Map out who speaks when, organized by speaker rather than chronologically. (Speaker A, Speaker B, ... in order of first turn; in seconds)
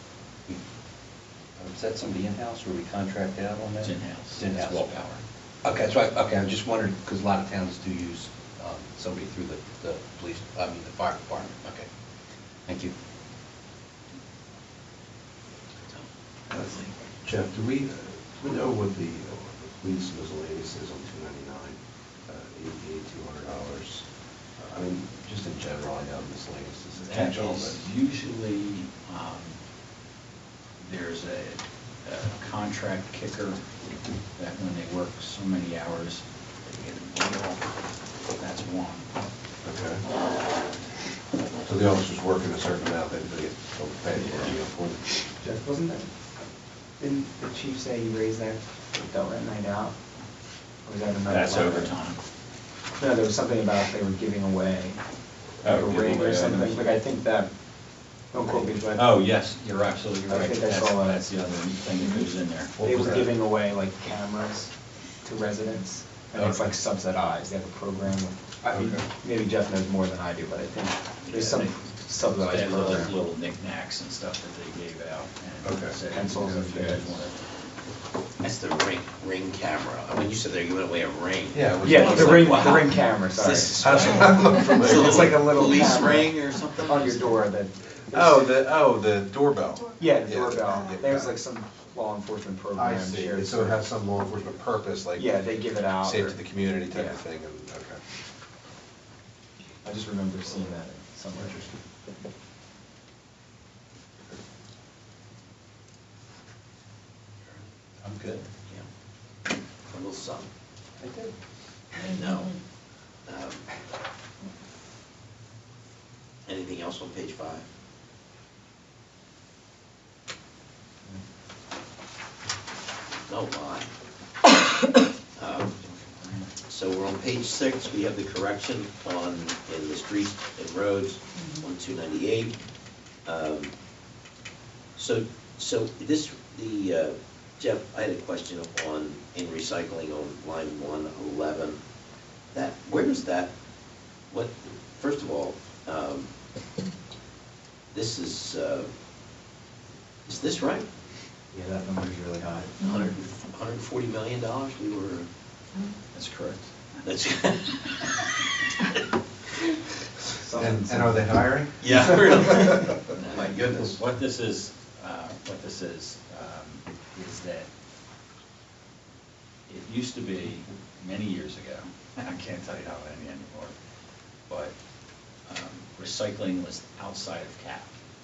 Speaker A: 1.6-4.8, 5.7-11.9, 12.7-12.9, 108.0-108.5, 111.0-111.3, 151.6-152.6
Speaker B: 3.8-5.2, 27.0-29.6, 30.8-33.6, 34.4-37.7, 38.4-39.1, 51.3-52.2, 55.6-56.8, 58.9-62.8, 71.2-77.4, 82.5-82.8, 125.8-126.5, 156.1-157.1, 163.1-167.7, 169.7-173.7, 174.5-174.7, 175.5-177.9
Speaker C: 16.5-24.1, 24.6-27.8, 39.6-40.0, 41.6-45.1, 62.8-63.3, 66.4-66.7, 68.7-69.0, 75.6-76.0, 81.5-82.8, 83.8-85.9, 88.1-91.3, 92.8-98.0, 101.3-101.8, 160.6-162.6
Speaker D: 45.4-46.1, 47.0-49.9, 50.9-52.0, 53.0-55.0, 55.6-57.5, 58.3-59.1, 60.3-61.2, 62.8-64.7, 65.2-73.2, 76.1-77.1, 81.8-84.1, 84.7-88.5, 90.0-93.8, 95.2-96.4, 96.9-97.2, 99.8-101.7, 160.4-161.3
Speaker E: 78.4-87.3, 109.9-110.5, 112.0-112.6, 113.3-113.7, 116.5-117.7, 123.3-123.9, 125.4-125.7, 126.7-132.6, 133.2-133.7, 135.0-141.8, 142.5-143.5, 144.3-146.3, 147.9-148.9, 150.3-150.9, 152.7-155.3, 157.0-158.4, 161.8-164.0